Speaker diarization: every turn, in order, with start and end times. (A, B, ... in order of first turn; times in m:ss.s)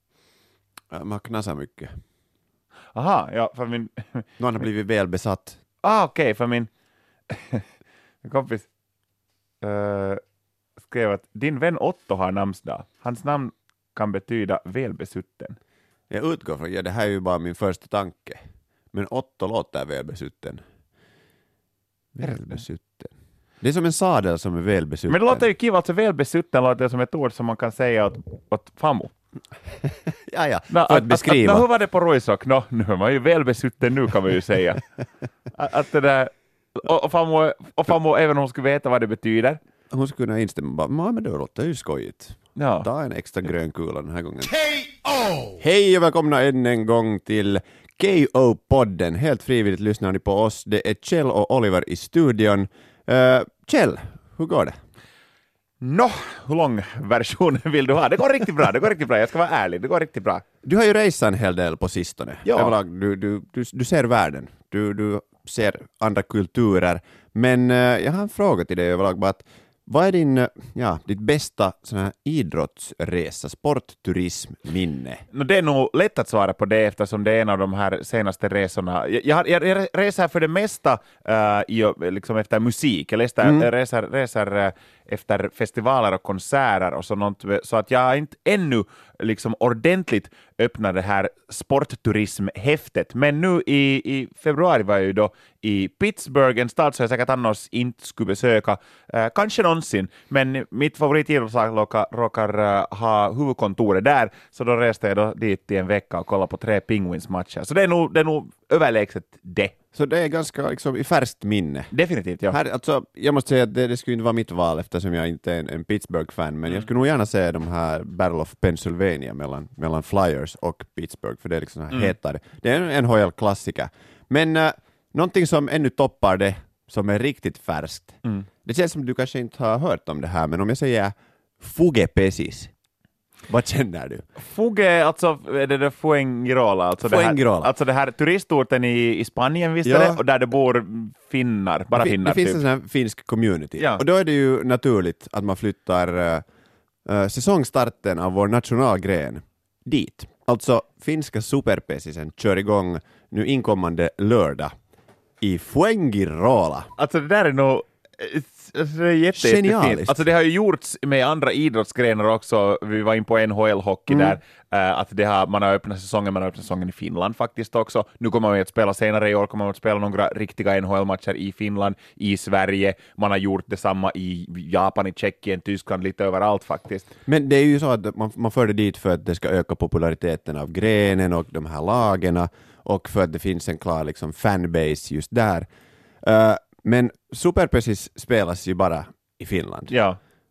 0:00.9-0:01.9 A
0:02.9-0:04.2 B
0:04.4-0:05.6 A
0:05.8-0:06.7 B
0:07.3-0:07.6 B
0:08.2-0:08.7 B
0:09.6-0:10.2 B
0:10.8-0:15.6 B
0:16.1-0:18.4 A
0:18.9-0:20.6 A
0:22.1-0:25.4 A
0:25.1-0:29.1 B
0:29.8-0:31.6 A
0:30.7-0:34.8 B
0:35.5-0:39.6 B
0:39.9-0:44.6 A
0:42.6-0:42.9 B
0:45.5-0:54.7 A
0:55.8-1:00.4 B
1:00.6-1:15.2 A
1:02.4-1:02.7 B
1:15.3-1:49.7 B
1:49.9-1:51.9 A
1:51.9-1:52.6 B
1:52.5-2:12.7 A
2:13.5-2:14.2 A
2:14.4-2:22.6 B
2:17.0-2:17.7 A
2:19.8-2:20.2 A
2:21.9-2:26.4 A
2:27.0-2:34.7 A
2:35.4-2:36.9 A
2:37.0-2:57.1 B
2:39.3-2:40.2 A
2:44.1-2:44.4 A
2:57.2-3:05.7 A
3:06.2-3:09.9 A
3:09.9-3:10.2 B